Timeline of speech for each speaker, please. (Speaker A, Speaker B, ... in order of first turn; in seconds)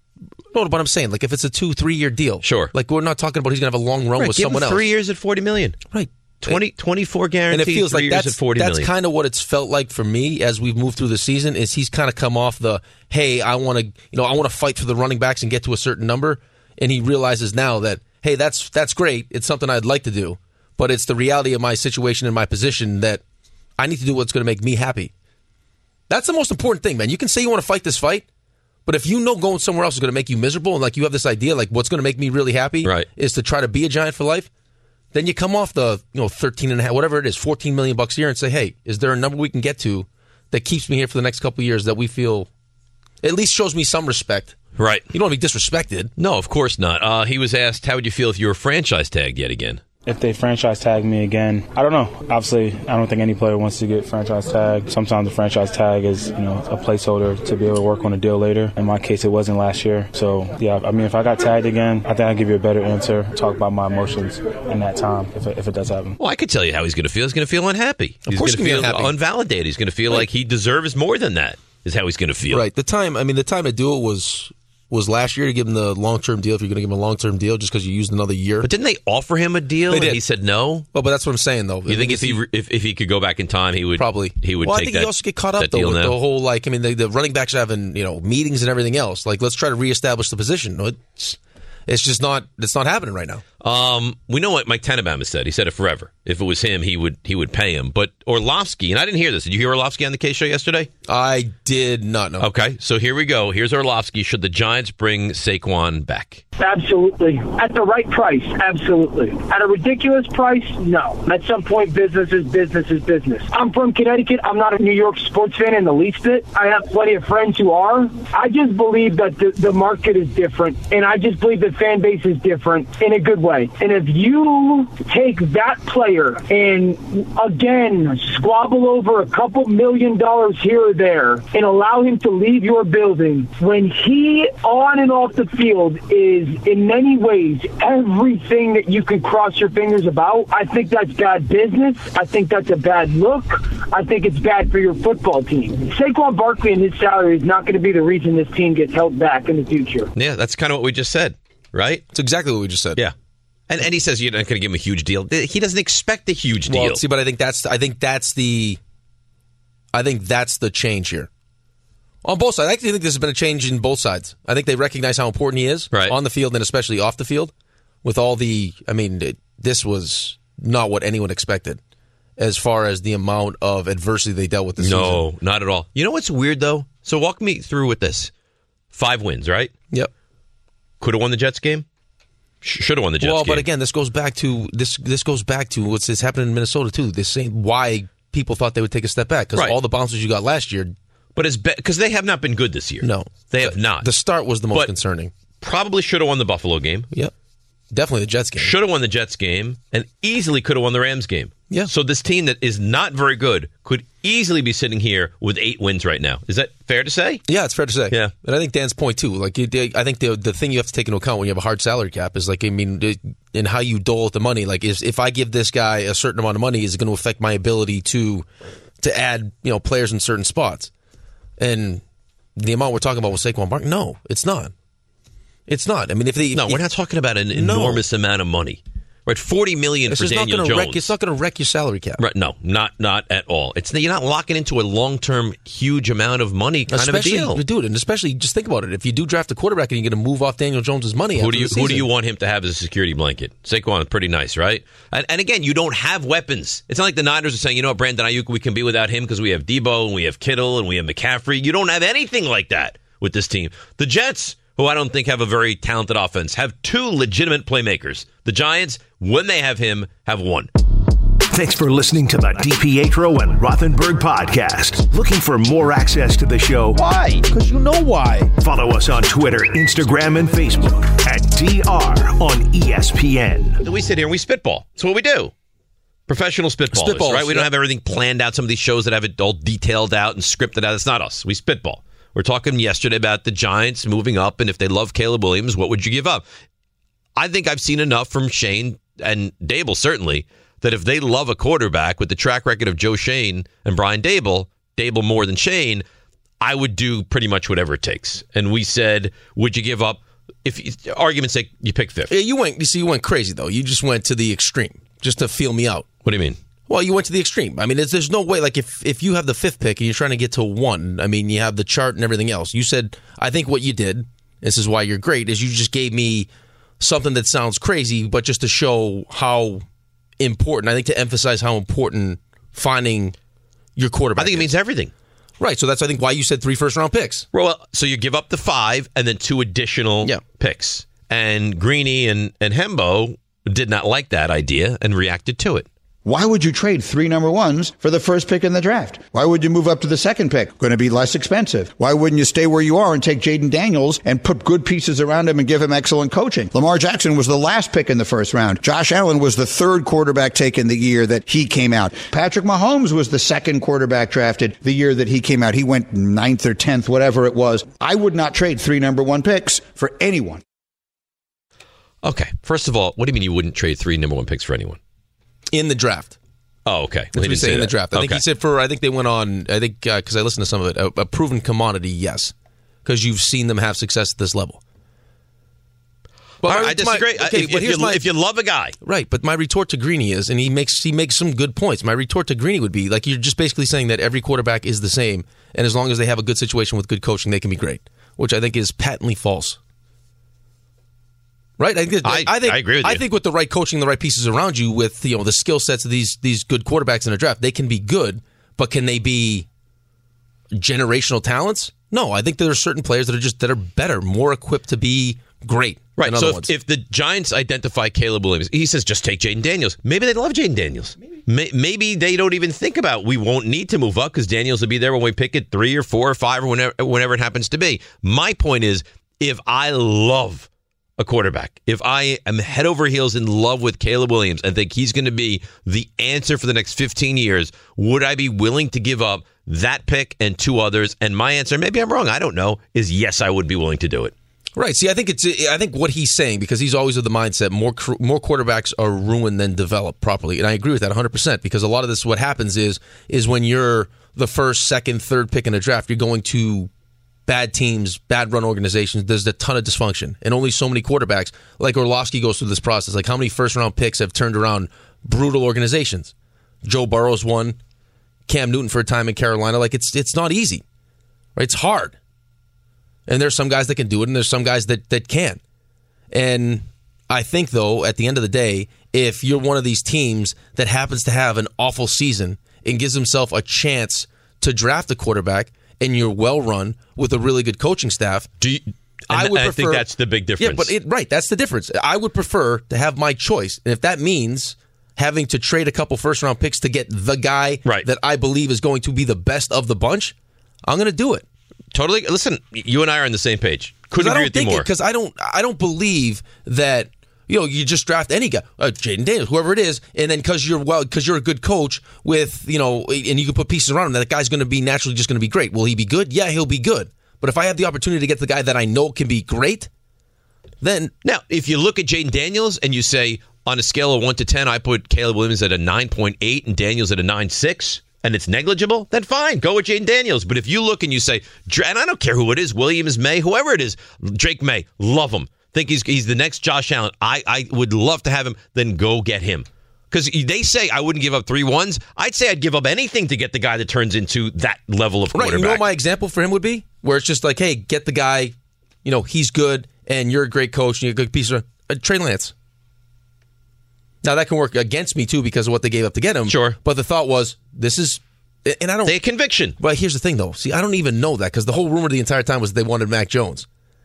Speaker A: 0.5-4.8, 5.9-6.6, 7.5-23.2, 23.8-25.1, 26.1-28.2, 28.9-34.5, 35.1-42.5, 43.2-44.5, 45.1-46.1, 68.3-69.2, 72.5-78.7, 79.9-80.2, 80.9-82.4, 84.0-93.4, 101.1-102.5, 152.1-153.0, 156.7-158.8, 159.9-161.3, 162.2-167.5, 168.0-171.8, 172.4-175.2, 183.2-190.9, 193.0-195.3, 197.9-198.7, 207.5-218.5, 219.0-220.9, 221.6-222.0, 222.6-224.7, 225.7-226.8, 227.5-228.0, 230.1-232.2, 236.9-242.1, 267.1-268.5, 276.9-277.7, 302.3-306.1, 306.9-316.5, 317.0-319.8, 320.4-323.4, 324.0-324.7, 325.6-327.5, 365.7-366.4, 367.3-372.5, 373.1-374.8, 376.6-378.2, 379.0-389.8, 391.8-399.7, 400.7-406.7, 434.8-446.9, 447.5-456.3, 456.8-457.8, 458.5-460.8, 461.6-462.2, 463.3-465.6, 466.3-478.5, 479.3-480.1, 480.6-490.3, 490.9-491.4, 494.1-509.9, 510.8-511.1, 535.3-538.5, 539.0-542.5, 544.2-549.2, 549.8-553.7
Speaker B: 2.4-2.7, 4.2-5.8, 6.4-8.9, 32.8-33.1, 44.8-45.1, 46.2-49.8, 66.2-72.7, 78.6-80.9, 81.9-86.2, 93.6-100.9, 102.4-106.4, 150.2-152.1, 153.7-157.0, 174.8-178.3, 178.9-179.7, 181.0-181.9, 182.6-183.7, 191.4-194.1, 195.6-197.1, 198.6-207.4, 226.5-231.1, 232.2-237.6, 241.3-260.7, 267.0-267.4, 273.8-275.5, 276.3-286.4, 287.4-296.1, 296.6-302.3, 306.2-306.6, 324.4-325.1, 327.5-335.9, 362.2-365.0, 366.9-368.4, 376.6-379.0, 392.2-393.2, 406.2-434.3, 478.6-480.9, 491.9-494.9, 511.2-535.9, 546.5-546.8, 549.0-549.8
Speaker C: 50.1-66.2
Speaker D: 106.6-150.1
Speaker E: 261.5-267.0, 268.6-273.8
Speaker F: 336.2-360.6